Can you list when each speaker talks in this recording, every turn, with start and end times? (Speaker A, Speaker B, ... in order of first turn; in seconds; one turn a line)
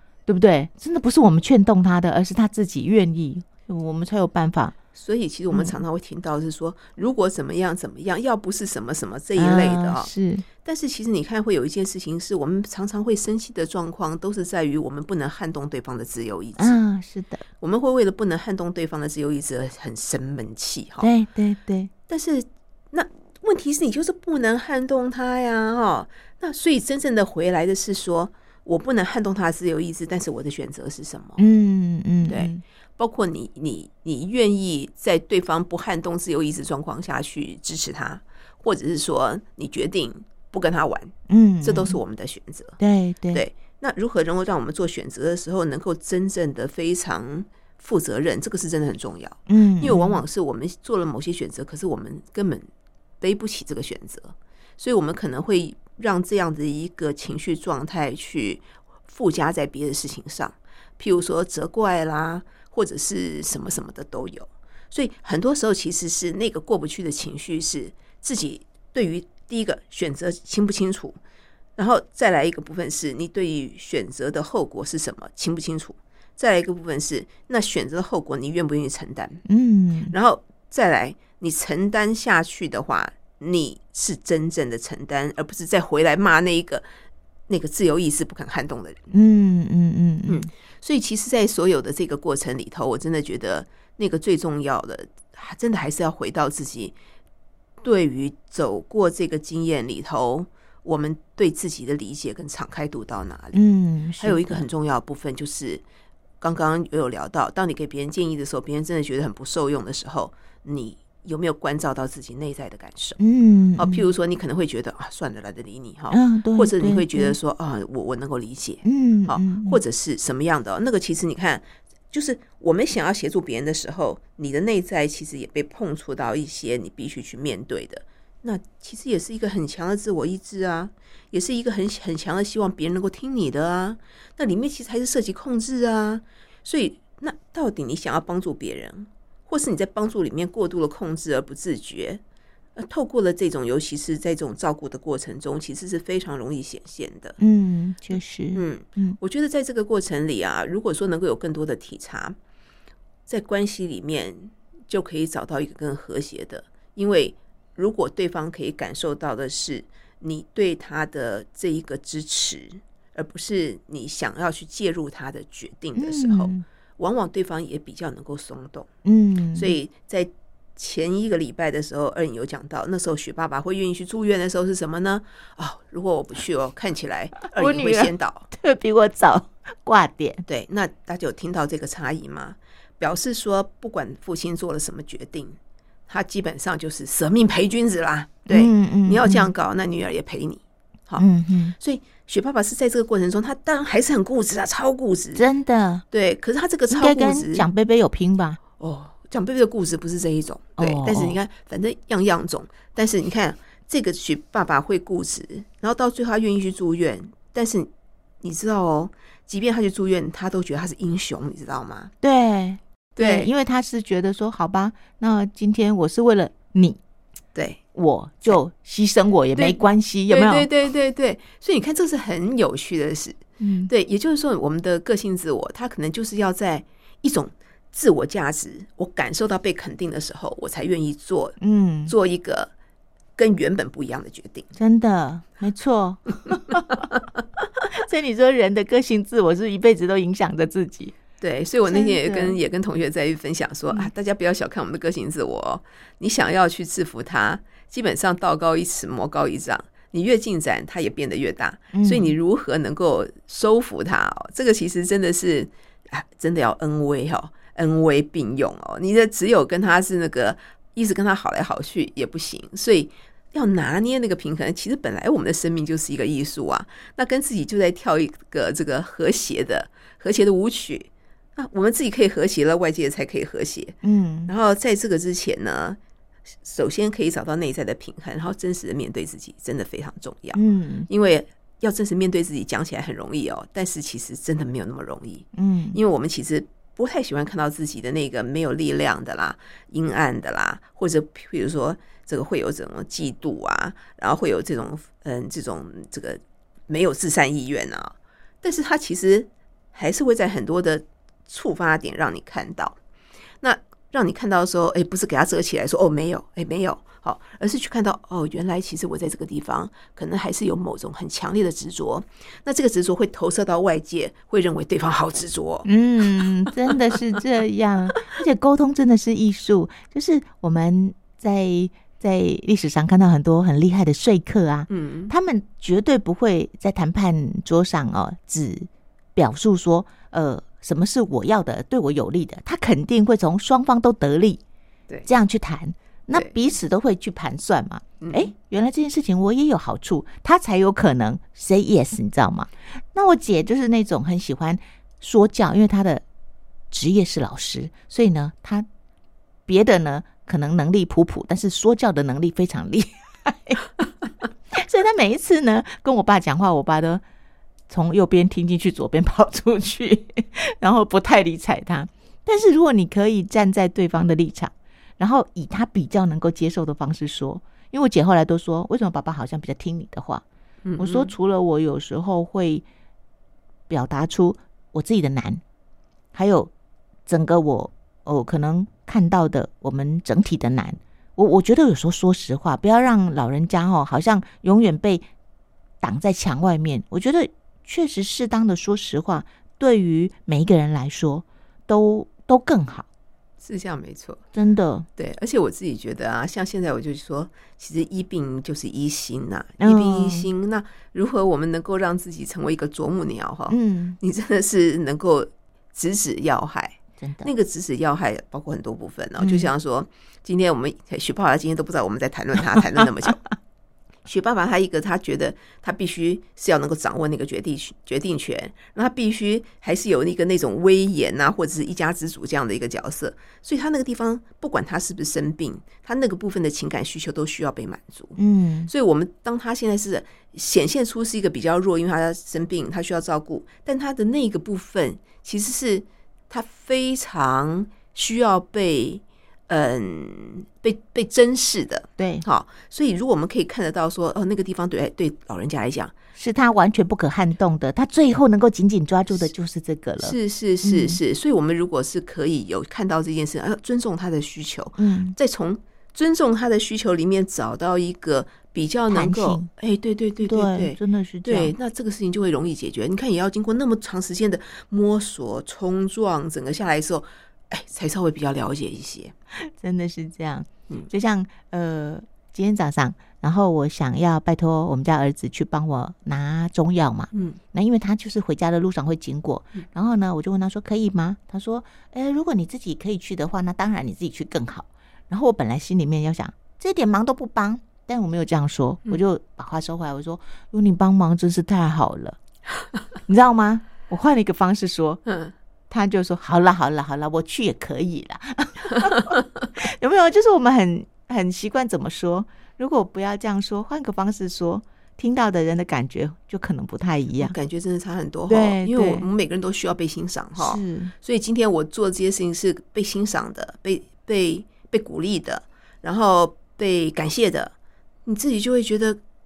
Speaker A: 0.3-4.7
Speaker B: 4.9-10.1
Speaker A: 5.5-5.8
Speaker A: 9.3-10.4
Speaker B: 10.6-16.8
Speaker A: 16.6-17.4
Speaker B: 17.6-21.1
Speaker A: 21.0-21.9
Speaker B: 22.1-31.4
Speaker A: 31.4-32.6
Speaker B: 32.2-42.8
Speaker A: 41.3-42.0
Speaker A: 42.8-43.4
Speaker B: 43.3-52.7
Speaker A: 49.5-50.2
Speaker B: 53.2-71.2
Speaker B: 71.8-79.4
Speaker A: 79.5-80.1
Speaker B: 80.1-86.8
Speaker B: 87.5-89.0
Speaker A: 89.1-90.5
Speaker B: 90.3-96.9
Speaker B: 97.8-103.6
Speaker A: 103.5-104.6
Speaker B: 104.2-105.8
Speaker B: 106.4-113.2
Speaker A: 113.2-114.1
Speaker B: 113.8-142.2
Speaker A: 116.1-117.3
Speaker A: 118.8-119.8
Speaker B: 142.8-147.4
Speaker A: 147.4-149.2
Speaker B: 148.1-152.3
Speaker B: 153.3-168.9
Speaker A: 165.9-166.6
Speaker A: 169.0-169.7
Speaker B: 169.5-178.5
Speaker A: 177.4-180.4
Speaker B: 180.4-185.6
Speaker B: 186.1-195.4
Speaker A: 188.5-189.5
Speaker A: 191.2-191.7
Speaker A: 195.3-196.0
Speaker B: 196.1-197.6
Speaker A: 196.9-198.6
Speaker B: 198.8-207.9
Speaker A: 200.8-201.4
Speaker B: 208.4-212.1
Speaker A: 212.2-217.0
Speaker B: 213.2-213.5
Speaker B: 217.5-217.8
Speaker A: 217.9-220.7
Speaker B: 219.6-232.7
Speaker A: 223.6-223.9
Speaker A: 231.6-232.1
Speaker B: 233.4-234.7
Speaker A: 234.8-237.1
Speaker A: 237.9-241.1
Speaker B: 241.4-276.0
Speaker A: 241.9-242.6
Speaker A: 251.9-252.3
Speaker A: 274.0-274.5
Speaker B: 276.6-302.9
Speaker A: 280.5-281.1
Speaker A: 285.5-286.0
Speaker B: 303.6-315.9
Speaker A: 315.8-334.6
Speaker B: 324.9-325.3
Speaker A: 335.2-346.2
Speaker B: 338.2-338.5
Speaker A: 346.9-348.9
Speaker A: 349.7-353.9
Speaker A: 354.7-357.2
Speaker A: 357.9-370.4
Speaker B: 370.8-371.3
Speaker A: 371.0-372.8
Speaker A: 373.9-375.6
Speaker A: 376.3-376.7
Speaker A: 377.3-385.2
Speaker A: 386.0-393.1
Speaker B: 393.6-394.4
Speaker A: 394.5-395.1
Speaker B: 395.2-413.4
Speaker A: 399.8-400.5
Speaker A: 403.7-404.2
Speaker A: 407.2-407.5
Speaker A: 409.4-409.7
Speaker B: 414.2-446.1
Speaker A: 428.4-428.9
Speaker A: 442.2-442.4
Speaker A: 446.3-451.2
Speaker B: 450.2-469.3
Speaker A: 455.0-455.4
Speaker A: 459.1-459.7
Speaker A: 460.4-461.7
Speaker A: 469.6-492.4
Speaker B: 477.3-477.6
Speaker A: 493.3-495.2
Speaker B: 495.2-495.5
Speaker A: 495.9-507.5
Speaker B: 507.4-517.7
Speaker A: 508.5-509.3
Speaker A: 510.6-511.1
Speaker B: 518.2-519.2